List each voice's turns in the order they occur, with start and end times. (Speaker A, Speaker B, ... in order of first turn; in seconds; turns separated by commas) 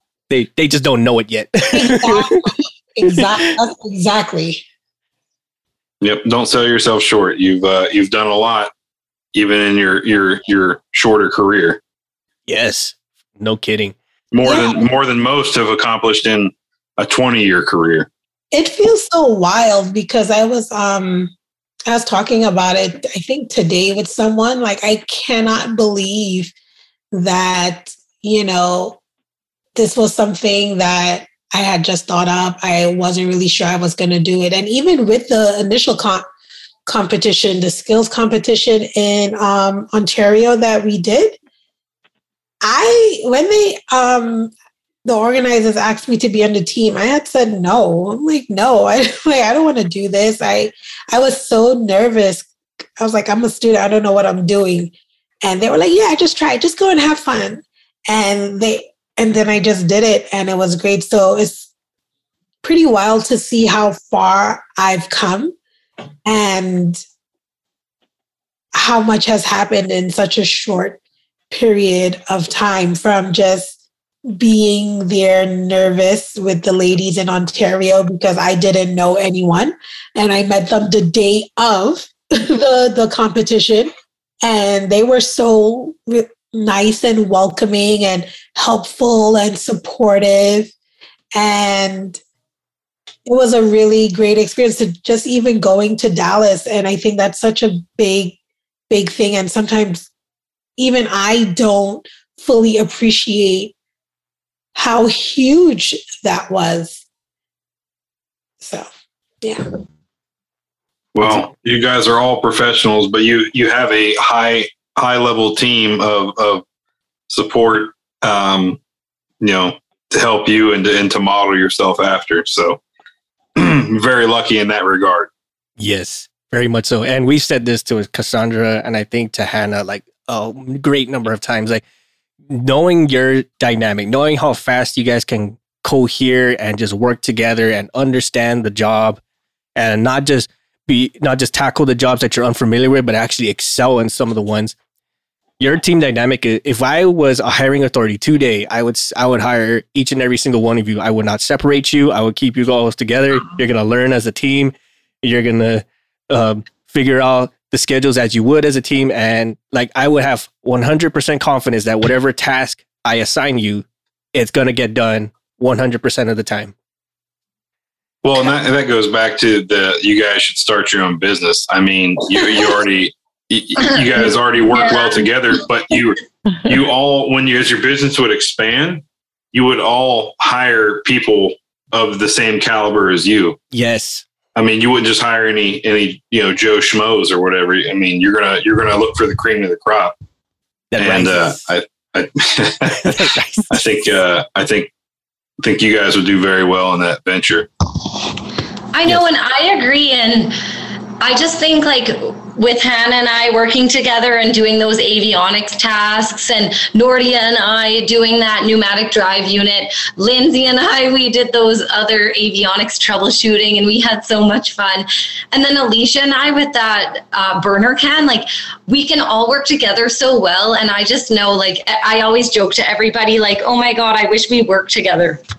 Speaker A: 0.3-2.4, Speaker B: 1.7-4.6, Speaker C: 6.0-8.7, Speaker C: 9.3-11.8, Speaker A: 12.5-13.9, Speaker C: 14.3-18.1, Speaker B: 14.4-14.8, Speaker B: 18.5-21.3, Speaker B: 21.9-26.5, Speaker B: 27.1-29.0, Speaker B: 29.8-36.2, Speaker B: 36.9-41.4, Speaker B: 42.6-44.5, Speaker B: 45.0-61.7, Speaker B: 62.6-65.5, Speaker B: 66.2-67.0, Speaker B: 68.7-71.0, Speaker B: 71.5-73.7, Speaker B: 74.3-83.9, Speaker B: 84.4-90.7, Speaker B: 91.3-92.2, Speaker B: 93.2-98.3, Speaker B: 98.9-100.1, Speaker B: 100.8-103.7, Speaker B: 104.7-107.0, Speaker B: 108.6-108.9, Speaker C: 111.1-116.6, Speaker C: 117.3-118.8, Speaker C: 119.4-122.8, Speaker C: 123.5-125.3, Speaker A: 125.8-131.8, Speaker A: 132.5-139.2, Speaker A: 139.8-144.8, Speaker A: 145.6-166.7, Speaker C: 168.2-183.6, Speaker D: 174.8-175.1, Speaker A: 183.7-184.2, Speaker C: 184.5-190.1, Speaker A: 190.9-191.6, Speaker C: 191.0-194.9, Speaker A: 193.0-193.7, Speaker C: 195.6-197.7, Speaker D: 198.9-200.6, Speaker D: 201.2-225.4